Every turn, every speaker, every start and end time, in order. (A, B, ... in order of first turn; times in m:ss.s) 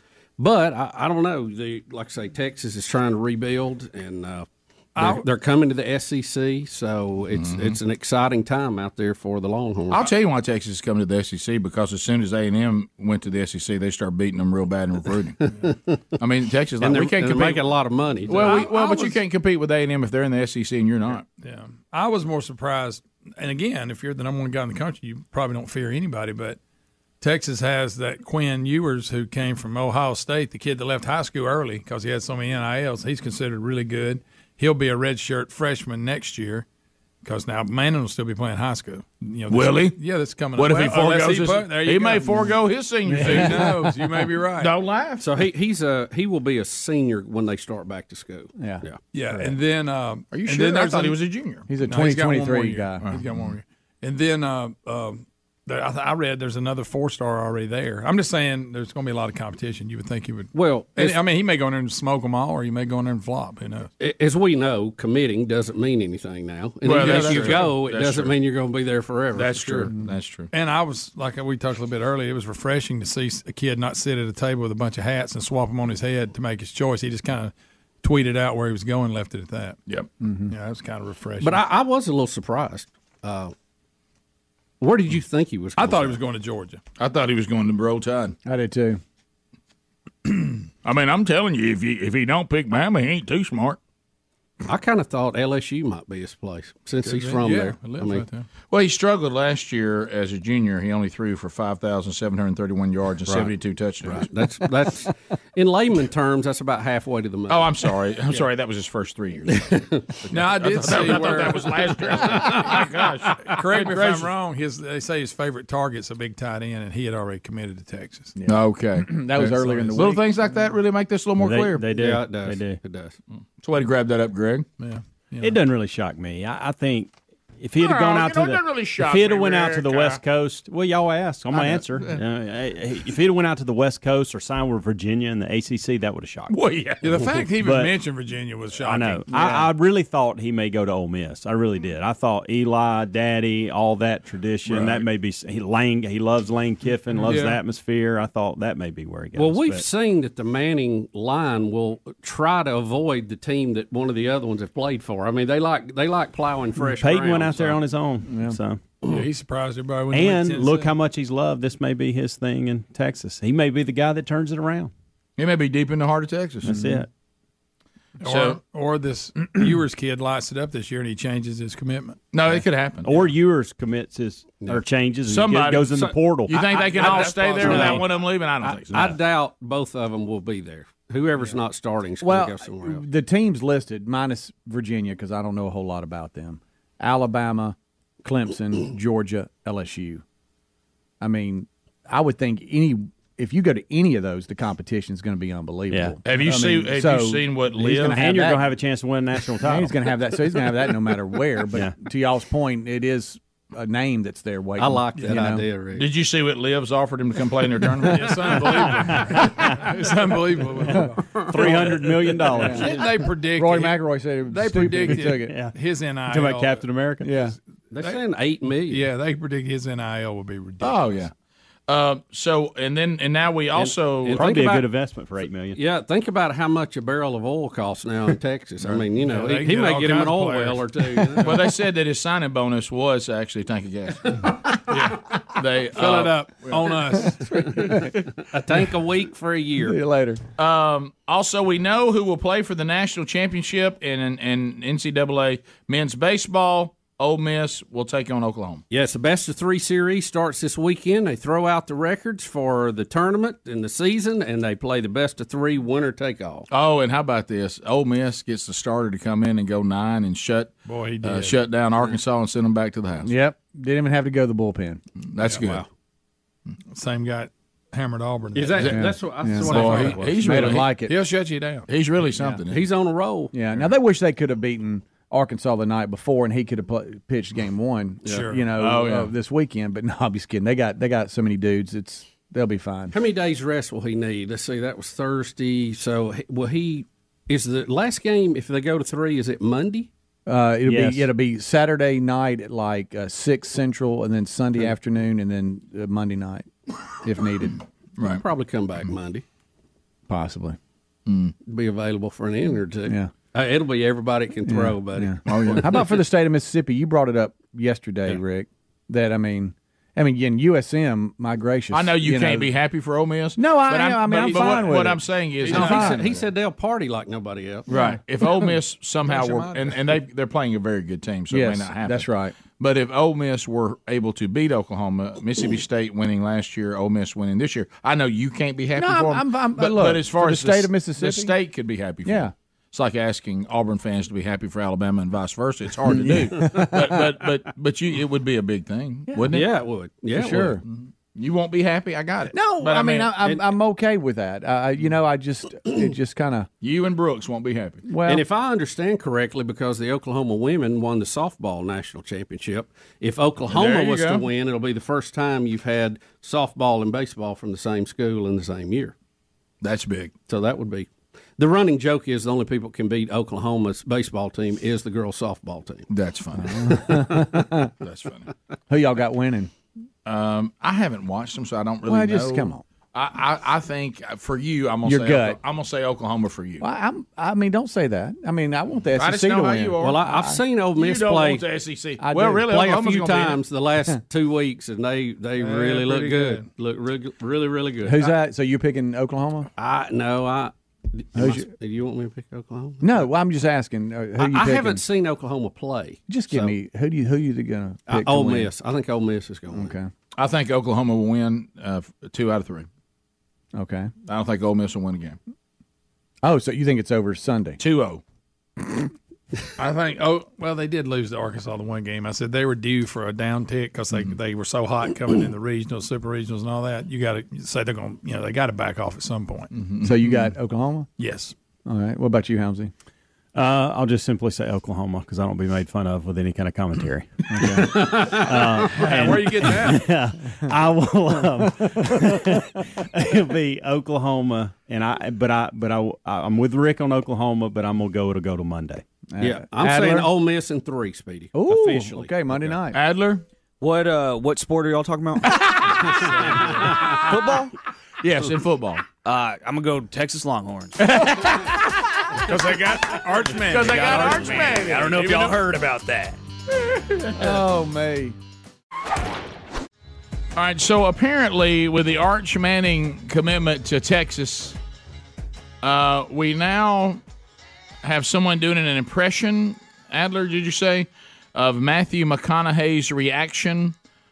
0:00.4-0:10.1 A
0:05.0-0:05.2 B
0:07.3-0:07.8 C
0:09.9-0:15.5 C
0:15.6-0:16.0 A
0:16.2-0:17.6 C
0:16.8-0:18.7 A
0:18.3-0:21.2 C
0:18.4-0:19.2 B
0:21.4-0:26.6 B
0:27.2-0:36.6 B
0:37.2-0:42.5 B
0:39.5-0:40.0 C
0:40.6-0:43.8 C
0:43.1-0:44.7 B
0:43.1-0:44.1 D
0:44.6-0:45.2 C
0:45.2-0:49.0 A
0:48.6-0:48.8 D
0:49.1-0:51.2 B
0:50.3-0:51.7 C
0:51.7-0:53.1 D
0:51.8-1:03.9 B
0:53.0-0:53.4 C
1:00.5-1:01.2 A
1:04.0-1:09.9 A
1:06.8-1:08.4 C
1:06.9-1:07.8 B
1:09.4-1:10.5 C
1:10.5-1:19.8 B
1:20.2-1:20.5 D
1:20.5-1:21.6 B
1:21.4-1:23.5 A
1:24.8-1:26.2 A
1:25.8-1:26.8 B
1:27.0-1:28.4 C
1:28.4-1:29.0 D
1:30.8-1:33.8 C
1:34.6-1:38.2 A
1:37.1-1:38.5 B
1:38.2-1:44.3 C
1:43.3-1:43.5 A
1:44.0-1:48.4 A
1:47.5-1:54.3 C
1:49.5-1:50.0 A
1:50.3-1:52.7 B
1:52.2-1:52.8 A
1:53.4-1:58.4 B
1:58.4-2:00.2 D
1:58.4-2:01.8 C
2:01.4-2:02.8 E
2:01.9-2:03.2 A
2:03.6-2:04.7 C
2:04.8-2:05.5 B
2:05.4-2:16.6 E
2:07.8-2:10.2 C
2:11.6-2:12.0 C
2:16.5-2:17.1 C
2:17.0-2:19.2 B
2:17.6-2:17.9 E
2:18.8-2:29.9 E
2:19.3-2:19.7 D
2:24.7-2:25.0 B
2:27.2-2:27.6 B
2:29.3-2:37.8 A
2:36.8-2:38.8 E
2:38.3-2:38.6 D
2:39.0-2:40.9 B
2:40.1-2:44.9 E
2:45.4-2:46.7 C
2:46.6-2:47.1 E
2:46.7-2:47.0 D
2:48.2-2:52.2 B
2:48.2-2:48.6 C
2:52.3-2:53.2 C
2:53.0-2:58.0 E
2:55.3-2:59.1 C
2:56.7-3:03.0 A
3:02.2-3:10.2 D
3:11.2-3:18.6 D
3:15.9-3:16.2 E
3:16.2-3:18.2 C
3:17.9-3:20.1 E
3:19.6-3:25.6 D
3:24.8-3:26.1 A
3:26.0-3:28.6 C
3:28.0-3:30.2 D
3:28.1-3:31.2 B
3:28.8-3:29.7 E
3:30.8-3:35.6 D
3:30.8-3:33.0 E
3:32.5-3:36.8 B
3:34.9-3:35.8 E
3:36.3-3:37.4 E
3:37.2-3:37.6 D
3:37.9-3:39.1 A
3:38.9-3:41.3 B
3:40.8-3:41.3 C
3:41.9-3:44.6 C
3:43.7-3:44.9 A
3:44.3-3:45.8 E
3:45.7-3:51.6 A
3:49.1-3:51.6 B
3:51.4-3:54.5 C
3:54.9-3:55.3 B
3:55.5-3:56.8 C
3:55.9-3:58.0 B
3:57.5-4:00.0 A
3:59.8-4:00.4 D
4:00.6-4:08.8 C
4:08.9-4:16.6 A
4:16.7-4:23.3 C
4:20.9-4:21.6 B
4:23.2-4:25.0 D
4:25.2-4:25.8 C
4:25.5-4:25.9 A
4:26.9-4:29.0 B
4:28.6-4:30.7 A
4:28.9-4:31.1 D
4:29.6-4:31.1 C
4:29.7-4:31.9 B
4:31.9-4:32.8 C
4:32.7-4:33.5 A
4:33.5-4:43.1 D
4:38.2-4:38.7 B
4:38.8-4:39.3 C
4:43.1-4:50.1 A
4:50.4-4:57.8 D
4:50.9-4:51.3 E
4:58.2-4:58.4 C
4:58.2-4:59.4 A
5:00.3-5:00.8 D
5:01.2-5:01.5 C
5:01.6-5:06.0 A
5:03.1-5:03.3 D
5:04.6-5:12.7 D
5:05.4-5:06.0 C
5:11.9-5:16.2 C
5:13.6-5:16.4 D
5:15.7-5:17.9 A
5:17.9-5:39.7 C
5:17.9-5:18.7 D
5:19.3-5:19.8 D
5:21.5-5:22.6 D
5:29.0-5:31.6 D
5:32.2-5:32.5 D
5:36.0-5:37.2 D
5:36.6-5:36.9 A
5:39.3-5:39.6 D
5:39.5-5:40.8 A
5:40.3-5:40.8 D
5:40.9-5:43.3 C
5:42.5-5:46.7 D
5:46.8-5:48.0 C
5:48.1-5:48.4 D
5:48.2-5:59.1 A
5:53.7-5:54.4 C
5:59.8-6:00.3 C
6:00.5-6:06.1 A
6:06.1-6:07.4 C
6:06.6-6:07.9 D
6:08.0-6:08.5 C
6:08.9-6:09.7 D
6:10.2-6:16.8 C
6:12.0-6:12.8 D
6:15.0-6:15.6 D
6:16.8-6:20.6 D
6:19.1-6:20.4 C
6:20.0-6:21.6 A
6:21.0-6:23.6 C
6:22.2-6:22.7 D
6:22.6-6:28.4 A
6:25.6-6:26.7 B
6:28.0-6:29.7 D
6:29.8-6:33.2 A
6:31.4-6:31.7 D
6:33.0-6:35.0 D
6:34.4-6:36.8 A
6:36.3-6:38.7 D
6:38.1-6:39.9 A
6:39.7-6:40.1 D
6:40.4-6:42.9 C
6:43.7-6:44.1 D
6:44.2-6:45.4 C
6:46.4-6:47.8 D
6:47.8-6:48.2 C
6:49.8-6:59.7 B
6:59.7-7:00.5 C
7:00.0-7:01.1 D
7:01.2-7:01.5 B
7:01.8-7:02.9 D
7:03.6-7:19.0 E
7:07.8-7:09.1 A
7:09.0-7:10.1 B
7:19.3-7:20.3 D
7:19.4-7:22.7 A
7:21.6-7:23.0 D
7:22.9-7:23.4 C
7:23.8-7:26.2 F
7:26.8-7:27.7 F
7:28.2-7:29.0 C
7:29.2-7:31.5 F
7:31.0-7:31.9 C
7:32.4-7:34.6 B
7:33.6-7:35.6 C
7:33.9-7:36.4 F
7:35.2-7:35.5 B
7:37.1-7:37.6 C
7:37.3-7:38.4 D
7:40.6-7:44.8 C
7:45.8-7:47.2 C
7:48.0-7:53.9 C